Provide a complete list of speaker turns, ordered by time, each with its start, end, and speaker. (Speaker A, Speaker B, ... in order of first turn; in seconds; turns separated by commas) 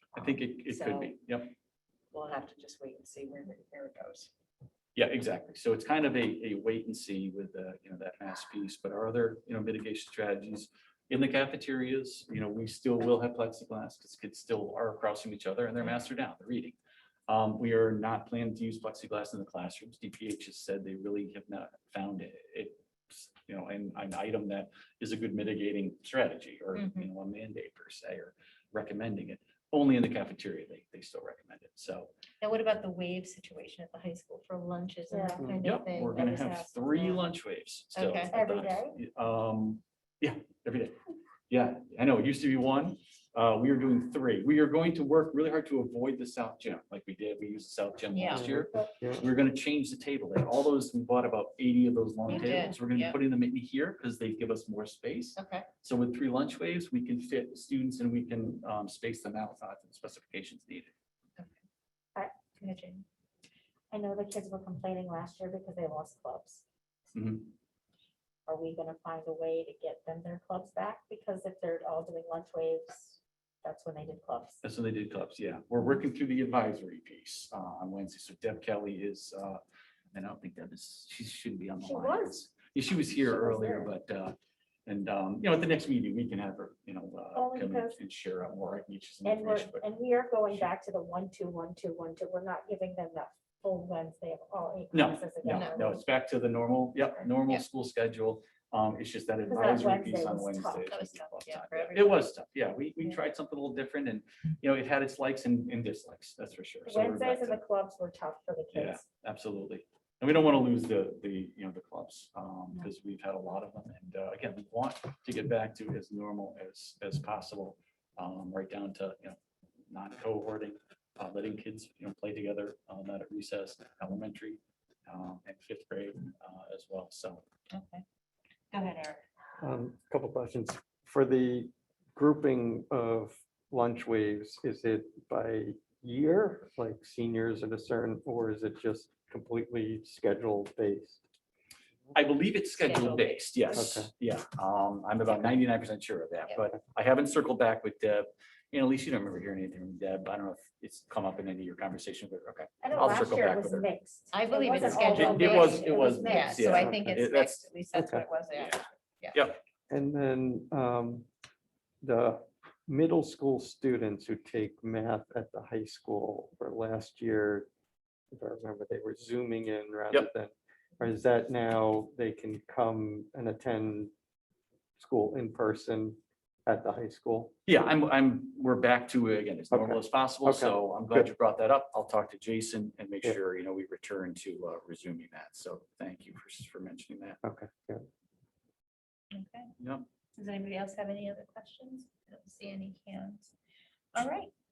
Speaker A: 0.1-1.2, Speaker B: 0.2-1.5, Speaker A: 2.1-4.3, Speaker B: 5.0-16.8, Speaker B: 17.3-32.1, Speaker A: 26.8-27.1, Speaker A: 32.4-37.3, Speaker C: 35.1-35.5, Speaker B: 35.6-41.0, Speaker A: 37.9-38.3, Speaker C: 38.3-39.0, Speaker B: 41.5-60.9, Speaker A: 48.1-48.5, Speaker D: 48.3-49.2, Speaker C: 48.5-48.9, Speaker A: 52.3-53.2, Speaker A: 55.4-55.7, Speaker A: 62.6-63.1, Speaker C: 63.9-66.6, Speaker B: 67.2-67.5, Speaker C: 68.5-74.6, Speaker B: 74.6-79.6, Speaker B: 80.1-89.8, Speaker C: 81.8-82.4, Speaker C: 83.1-83.9, Speaker C: 87.3-88.0, Speaker C: 89.2-96.0, Speaker B: 94.9-107.6, Speaker A: 95.5-95.8, Speaker C: 99.5-100.9, Speaker A: 100.9-102.3, Speaker C: 106.8-109.0, Speaker B: 108.7-119.4, Speaker B: 119.9-127.4, Speaker A: 127.7-128.0, Speaker A: 128.7-129.2, Speaker D: 129.6-141.2, Speaker B: 142.1-153.9, Speaker A: 142.8-144.1, Speaker D: 143.7-144.1, Speaker C: 152.8-156.9, Speaker A: 154.3-159.5, Speaker B: 154.9-157.7, Speaker D: 156.7-157.2, Speaker D: 157.9-158.2, Speaker D: 159.9-161.3, Speaker D: 162.0-167.7, Speaker D: 168.3-174.1, Speaker D: 175.0-177.5, Speaker B: 177.7-187.4, Speaker D: 179.7-181.3, Speaker D: 187.4-188.1, Speaker A: 189.3-189.7, Speaker B: 189.8-190.1, Speaker A: 190.4-193.5, Speaker A: 194.1-194.5